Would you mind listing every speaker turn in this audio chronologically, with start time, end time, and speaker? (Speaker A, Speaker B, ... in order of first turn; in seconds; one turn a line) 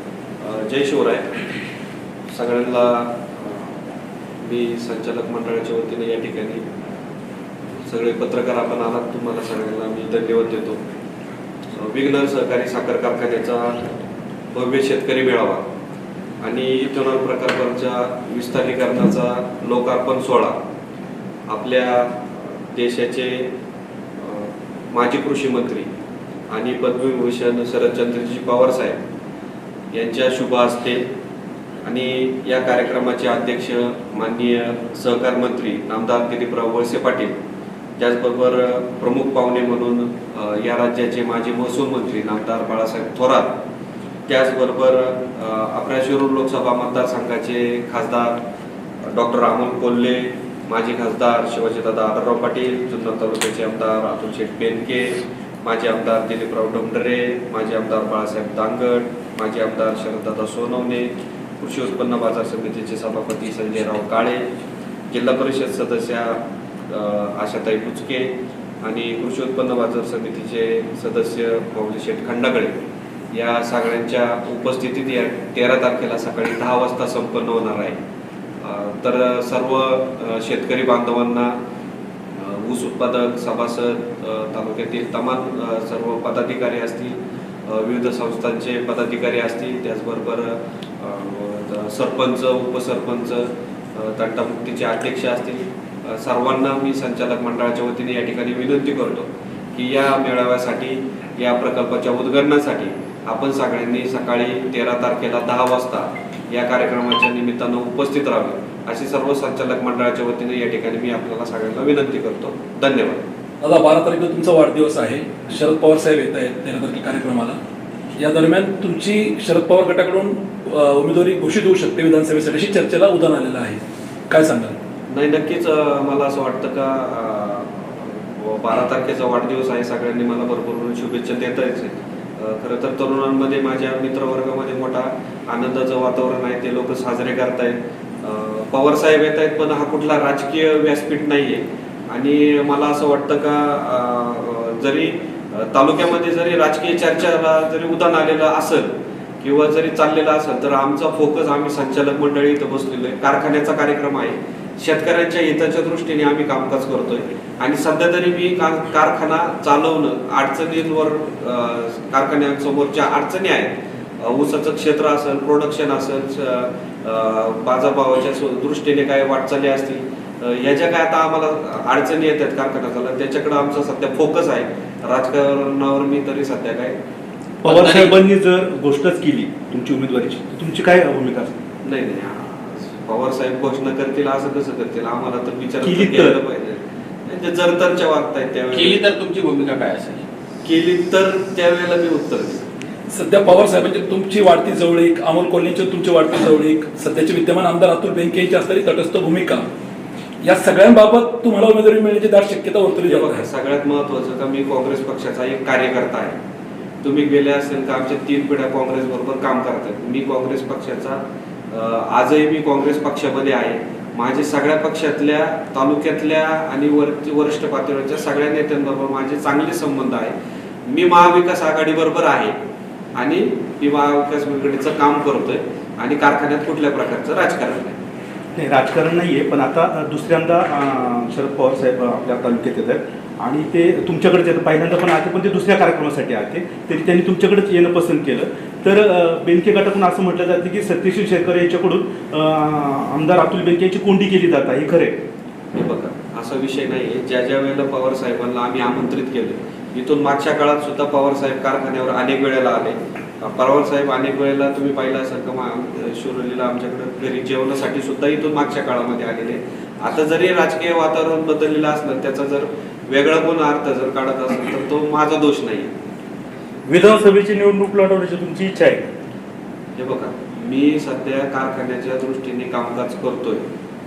Speaker A: 0.4-1.3
Speaker A: 2.3-3.8
Speaker A: 4.4-6.6
Speaker A: 7.8-10.8
Speaker A: 11.7-13.8
Speaker A: 14.5-15.6
Speaker A: 16.4-20.6
Speaker A: 21.5-23.5
Speaker A: 24.2-25.9
Speaker A: 26.5-29.0
Speaker A: 29.9-31.1
Speaker A: 31.8-37.4
Speaker A: 38.0-43.6
Speaker A: 44.3-48.4
Speaker A: 49.0-64.5
Speaker A: 65.1-72.7
Speaker A: 73.3-78.0
Speaker A: 78.6-81.5
Speaker A: 82.3-113.2
Speaker B: 113.6-117.6
Speaker B: 118.2-124.7
Speaker A: 125.1-177.0
Speaker C: 177.6-181.6
Speaker D: 177.7-178.1
Speaker A: 181.8-189.0
Speaker C: 185.8-186.4
Speaker D: 188.7-190.2
Speaker A: 190.6-192.6
Speaker B: 193.1-199.6
Speaker B: 200.4-203.5
Speaker A: 203.1-206.3
Speaker A: 207.0-211.2
Speaker A: 211.7-220.3
Speaker A: 220.8-222.6
Speaker A: 223.2-228.0
Speaker C: 228.6-245.1
Speaker A: 245.7-265.9
Speaker C: 266.9-269.1
Speaker A: 270.0-273.6